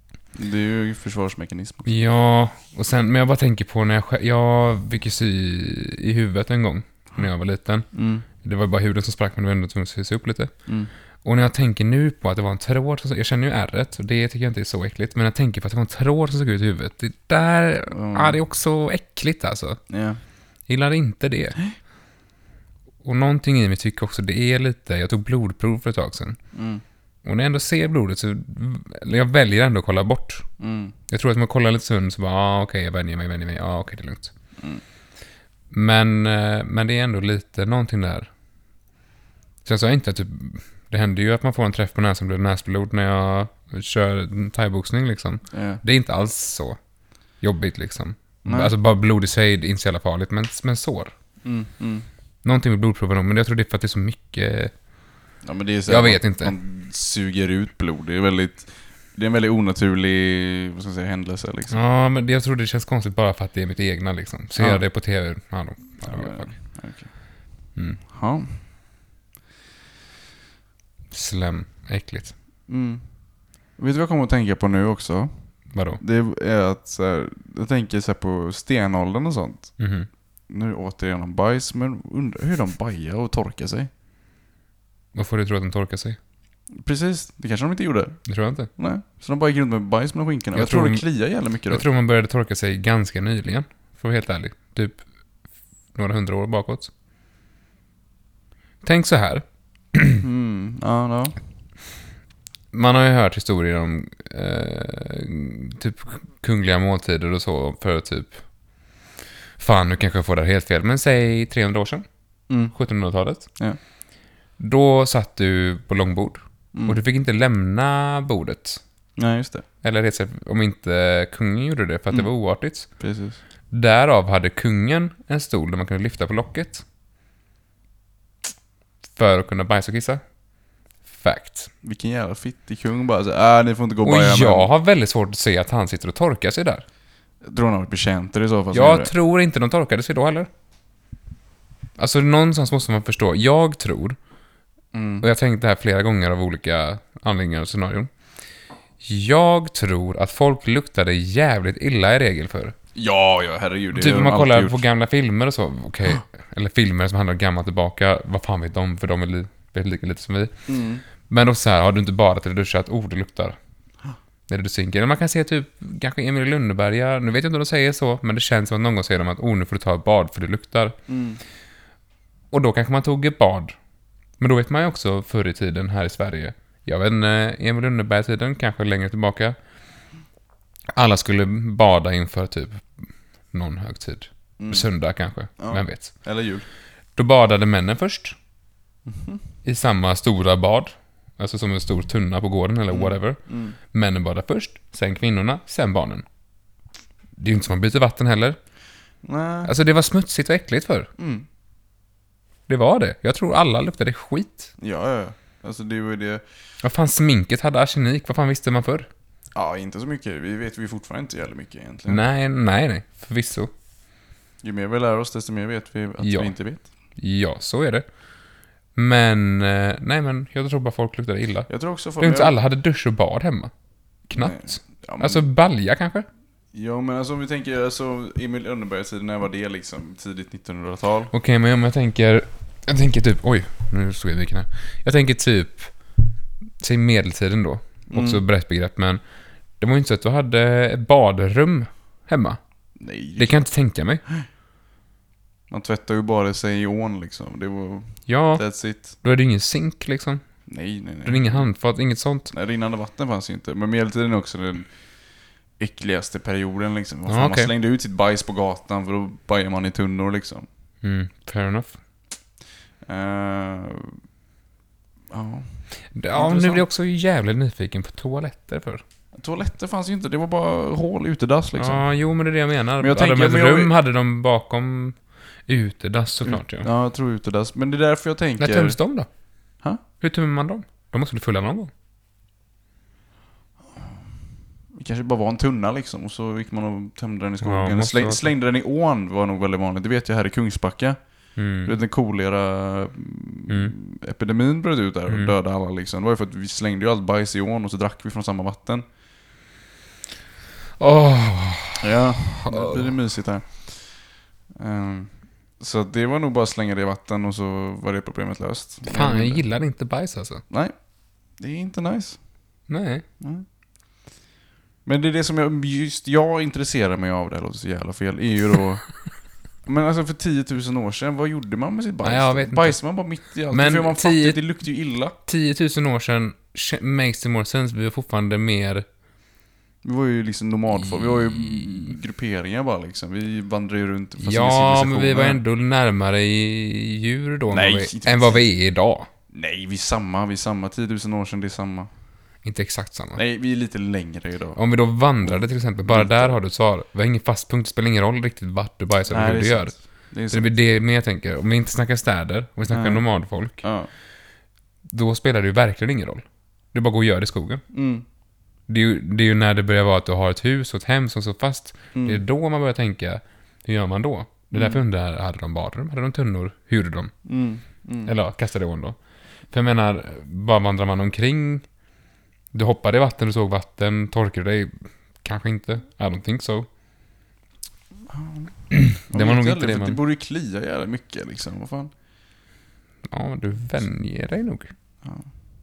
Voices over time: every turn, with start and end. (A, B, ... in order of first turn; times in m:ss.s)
0:00.3-0:01.9 A
0:01.8-0:07.9 B
0:07.9-0:08.2 A
0:08.4-0:10.5 B
0:11.2-0:19.8 B
0:17.9-0:18.4 A
0:19.9-0:20.2 A
0:20.7-0:21.6 B
0:23.0-0:26.4 B
0:26.5-0:26.8 A
0:27.2-0:30.5 B
0:30.6-0:30.9 A
0:31.1-0:34.3 B
0:34.6-0:34.8 A
0:35.7-0:38.3 B
0:39.6-0:46.8 B
0:45.5-0:45.8 A
0:47.4-0:51.1 B
0:48.4-0:48.7 A
0:51.4-0:52.0 A
0:52.4-0:54.7 B
0:55.4-1:01.8 A
0:55.9-0:56.5 B
1:01.7-1:06.6 B
1:06.0-1:07.1 A
1:08.1-1:08.6 A
1:11.1-1:12.3 B
1:12.7-1:13.0 A
1:13.8-1:15.4 A
1:15.7-1:16.0 B
1:16.0-1:19.8 A
1:19.8-1:20.1 B
1:20.5-1:23.9 A
1:25.1-1:26.2 B
1:26.7-1:31.8 A
1:28.2-1:28.7 B
1:30.5-1:31.0 B
1:31.7-1:35.0 B
1:35.9-1:36.9 B
1:38.8-1:40.2 B
1:40.2-1:41.4 A
1:42.7-1:48.4 B
1:49.6-1:52.0 B
1:52.5-1:52.7 A
1:52.7-1:53.5 B
1:54.6-1:58.8 B
1:56.7-1:57.0 A
1:59.2-1:59.6 A
1:59.8-2:02.9 B
2:03.0-2:03.4 A
2:03.7-2:06.8 B
2:09.2-2:10.2 B
2:11.1-2:11.7 B
2:11.8-2:14.7 A
2:14.0-2:16.8 B
2:17.4-2:19.1 A
2:18.7-2:20.5 B
2:22.0-2:24.2 B
2:24.9-2:25.2 A
2:25.2-2:28.1 B
2:29.0-2:32.7 B
2:32.9-2:34.8 A
2:33.9-2:40.6 B
2:40.7-2:41.0 A
2:41.3-2:43.6 B
2:44.5-2:51.0 B
2:51.1-2:51.4 A
2:52.5-2:53.8 B
2:54.4-2:59.6 B
3:00.9-3:02.8 B
3:03.5-3:06.1 B
3:04.6-3:04.9 A
3:05.6-3:06.6 A
3:07.1-3:08.4 B
3:09.0-3:09.4 A
3:09.6-3:13.4 B
3:12.9-3:13.8 A
3:13.9-3:16.2 B
3:17.4-3:18.6 B
3:19.2-3:19.7 A
3:19.6-3:21.1 B
3:21.2-3:21.4 A
3:22.7-3:24.7 B
3:24.8-3:26.4 A
3:26.8-3:29.1 B
3:29.5-3:32.2 A
3:32.1-3:33.7 B
3:34.6-3:36.8 A
3:36.2-3:36.5 B
3:37.2-3:38.0 B
3:38.9-3:41.7 B
3:41.7-3:42.6 A
3:42.2-3:43.7 B
3:44.3-3:46.2 B
3:44.3-3:45.4 A
3:46.7-3:51.3 A
3:51.3-3:55.9 B
3:56.8-3:59.2 B
3:58.1-3:58.4 A
3:59.8-4:02.6 B
4:03.0-4:03.6 A
4:03.4-4:04.2 B
4:05.7-4:09.1 A
4:08.3-4:10.4 B
4:10.7-4:11.7 A
4:11.2-4:12.5 B
4:12.5-4:14.9 A
4:15.8-4:20.7 A
4:17.3-4:17.7 B
4:21.0-4:22.0 B
4:23.0-4:24.2 A
4:25.3-4:26.8 A
4:26.1-4:29.0 B
4:29.3-4:32.1 A
4:31.8-4:36.9 B
4:33.0-4:33.9 A
4:36.4-4:39.0 A
4:38.6-4:39.3 B
4:40.2-4:41.9 B
4:44.9-4:51.2 A
4:47.6-4:48.5 B
4:51.6-4:51.9 B
4:51.8-4:59.0 A
4:53.7-4:53.9 B
5:01.0-5:03.1 B
5:02.0-5:04.2 A
5:04.7-5:09.6 A
5:09.1-5:10.6 B
5:11.6-5:12.4 A
5:12.9-5:13.2 B
5:15.0-5:19.1 A
5:19.8-5:25.4 A
5:22.2-5:23.0 B
5:23.7-5:24.6 B
5:25.4-5:29.0 B
5:30.0-5:35.6 A
5:31.2-5:31.8 B
5:34.4-5:39.3 B
5:37.7-5:38.6 A
5:39.5-5:42.1 A
5:42.6-5:43.4 B
5:43.3-5:44.8 A
5:44.8-5:49.9 B
5:45.4-5:46.6 A
5:49.3-5:50.7 A
5:50.5-5:53.8 B
5:52.9-5:53.2 A
5:53.8-5:54.1 A
5:55.1-5:57.8 B
5:57.9-5:58.2 A
5:58.9-6:07.3 B
6:02.1-6:02.4 A
6:04.7-6:05.0 A
6:07.4-6:08.3 A
6:08.2-6:09.2 B
6:09.7-6:11.8 B
6:12.7-6:14.9 B
6:15.4-6:16.9 B
6:18.3-6:22.1 A
6:18.9-6:20.2 B
6:23.3-6:24.9 B
6:25.2-6:25.5 A